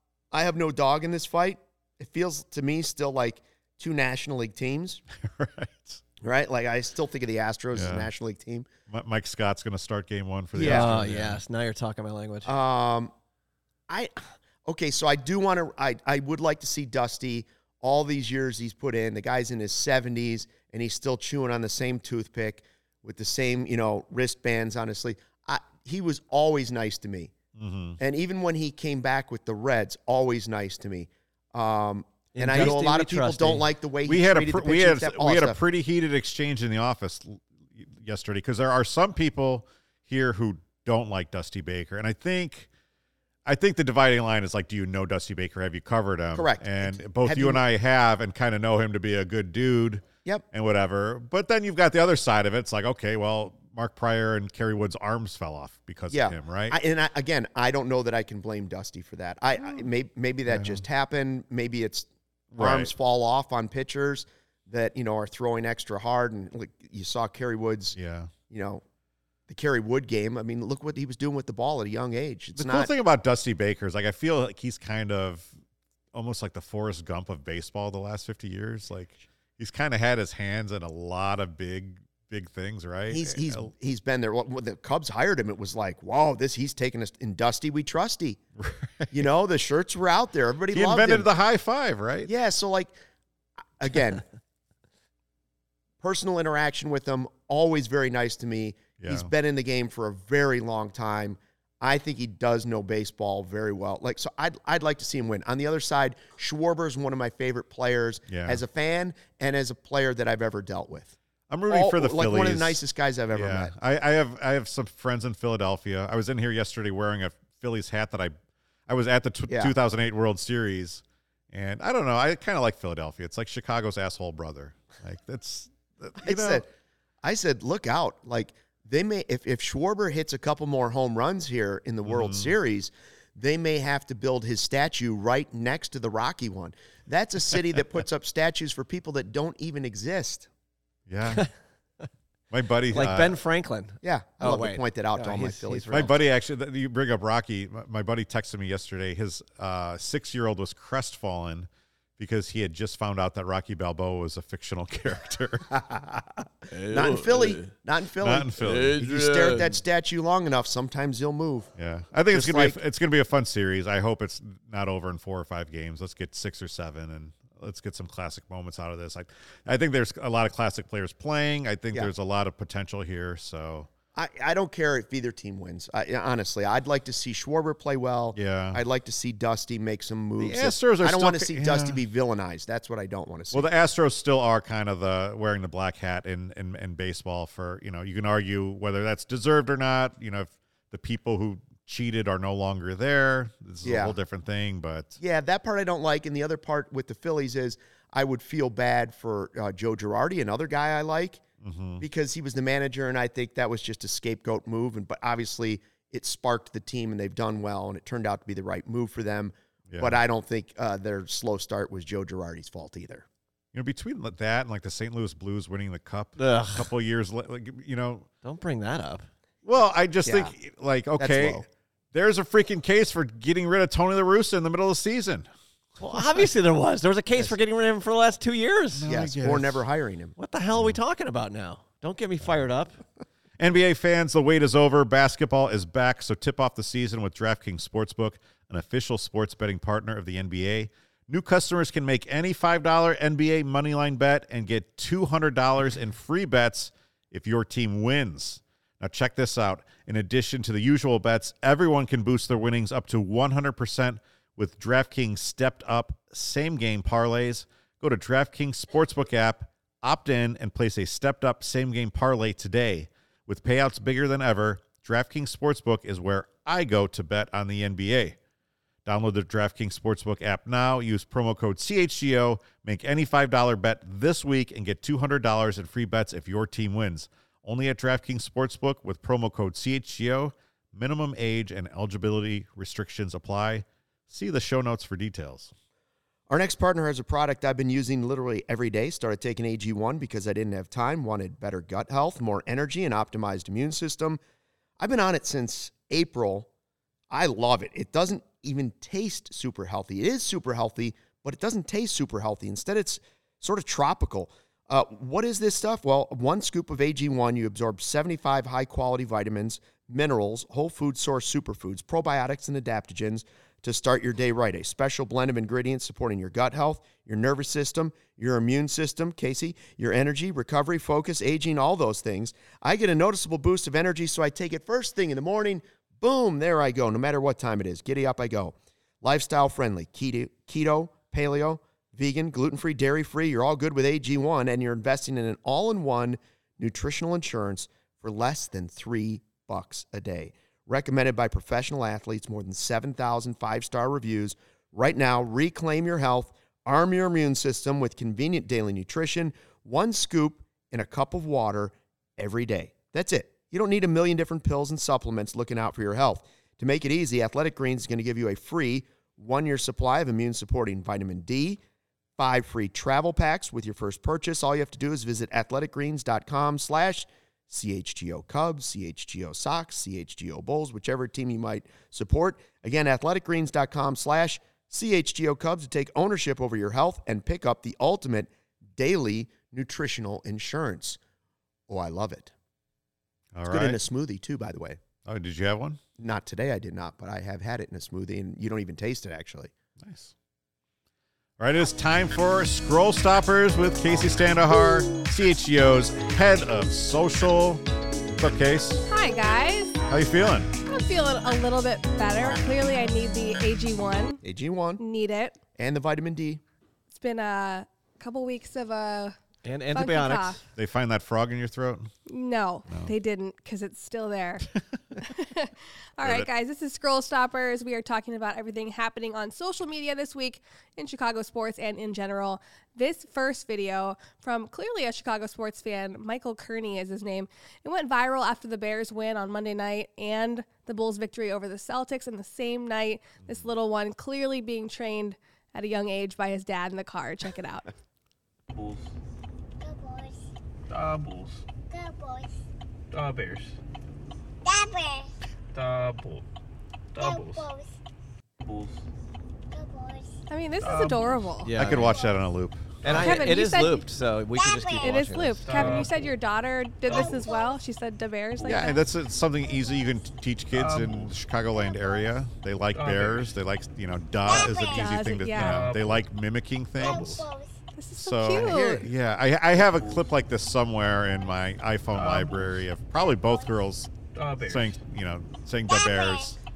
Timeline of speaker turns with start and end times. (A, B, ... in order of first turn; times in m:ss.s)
0:00.3-0:05.0 A
0:05.2-0:06.0 B
0:06.2-0:08.6 A
0:07.7-0:08.1 B
0:08.9-0:11.4 B
0:10.5-0:10.9 A
0:10.6-0:12.5 C
0:12.4-0:13.1 A
0:13.9-0:27.3 A
0:27.6-0:28.0 B
0:28.0-0:35.6 A
0:32.3-0:33.7 C
0:34.0-0:42.7 B
0:43.4-0:56.8 B
0:46.3-0:47.6 A
0:56.1-1:08.0 A
1:00.5-1:00.8 B
1:02.5-1:02.9 B
1:07.9-1:08.3 B
1:08.5-1:08.8 A
1:09.5-1:12.9 A
1:12.6-1:15.5 B
1:16.1-1:23.7 B
1:23.1-1:28.4 A
1:28.6-1:29.3 B
1:29.1-1:31.3 A
1:30.7-1:32.3 B
1:32.2-1:32.9 A
1:33.8-1:34.2 A
1:36.0-1:51.2 A
1:39.0-1:39.3 B
1:48.3-1:48.6 B
1:51.5-1:52.8 B
1:51.7-1:53.7 A
1:53.3-1:58.3 B
1:58.9-2:06.6 B
1:59.5-1:59.7 A
2:06.2-2:06.6 A
2:07.2-2:20.5 A
2:12.0-2:12.5 B
2:21.1-2:21.5 B
2:22.5-2:23.4 B
2:22.9-2:26.1 C
2:24.0-2:26.1 A
2:25.9-2:35.7 B
2:35.7-2:41.7 A
2:36.7-2:37.7 C
2:38.2-2:39.6 B
2:38.6-2:39.6 C
2:41.8-2:53.9 B
2:42.3-2:42.8 A
2:54.1-3:03.7 A
2:58.3-2:58.8 B
3:00.4-3:02.0 B
3:03.5-3:15.2 B
3:13.8-3:14.2 A
3:15.2-3:21.4 A
3:21.6-3:22.0 B
3:22.0-3:33.2 A
3:29.9-3:30.2 B
3:33.7-3:38.3 B
3:36.4-3:36.9 C
3:38.4-3:39.3 C
3:39.6-3:45.5 B
3:40.2-3:40.5 A
3:41.2-3:41.6 A
3:46.0-3:49.1 C
3:48.9-3:49.8 B
3:49.1-3:50.3 A
3:50.4-3:53.0 C
3:53.6-4:28.4 B
4:29.0-4:45.7 B
4:46.5-4:54.4 A
4:55.0-4:56.7 A
4:57.3-6:01.8 A
6:02.4-6:21.2 A
6:21.9-6:22.5 A
6:23.5-6:24.0 B
6:23.7-6:25.0 A
6:25.2-6:26.0 B
6:26.2-6:29.7 A
6:30.0-6:30.3 B
6:31.6-6:37.8 B
6:38.3-6:39.0 B
6:39.0-6:40.0 D
6:40.1-6:40.7 B
6:40.8-6:44.4 D
6:44.4-6:45.0 A
6:45.0-6:45.6 D
6:45.8-6:46.6 A
6:47.1-6:49.3 D
6:49.6-6:50.6 C
6:49.9-6:50.6 D
6:50.8-6:52.1 B
6:52.3-6:54.7 D
6:55.2-7:17.9 D
6:56.2-6:56.5 B
7:18.7-7:19.1 E
7:19.8-7:20.5 F
7:20.9-7:21.7 E
7:21.9-7:22.6 F
7:23.1-7:23.8 E
7:24.6-7:25.4 F
7:25.7-7:26.5 E
7:27.1-7:27.7 E
7:27.2-7:28.0 F
7:28.6-7:29.0 E
7:29.7-7:30.5 F
7:30.5-7:31.8 D
7:30.8-7:31.6 E
7:31.6-7:32.2 C
7:31.7-7:33.0 B
7:31.9-7:32.5 F
7:33.0-7:33.5 E
7:33.0-7:36.1 C
7:33.1-7:34.1 D
7:34.5-7:35.2 F
7:35.0-7:39.0 D
7:35.6-7:36.3 E
7:37.1-7:37.4 E
7:37.1-7:37.8 F
7:38.6-7:47.4 B
7:39.6-7:40.3 F
7:40.7-7:41.4 E
7:41.6-7:42.4 F
7:42.9-7:43.6 E
7:44.4-7:45.1 F
7:44.5-7:45.9 D
7:45.5-7:46.2 E
7:47.0-7:47.4 E
7:47.0-7:47.9 F
7:48.0-7:49.1 D
7:48.1-7:54.1 B
7:49.8-7:50.3 E
7:52.1-7:52.8 E
7:53.1-7:53.8 F
7:54.3-7:55.0 E
7:54.6-7:56.6 B
7:55.8-7:56.6 F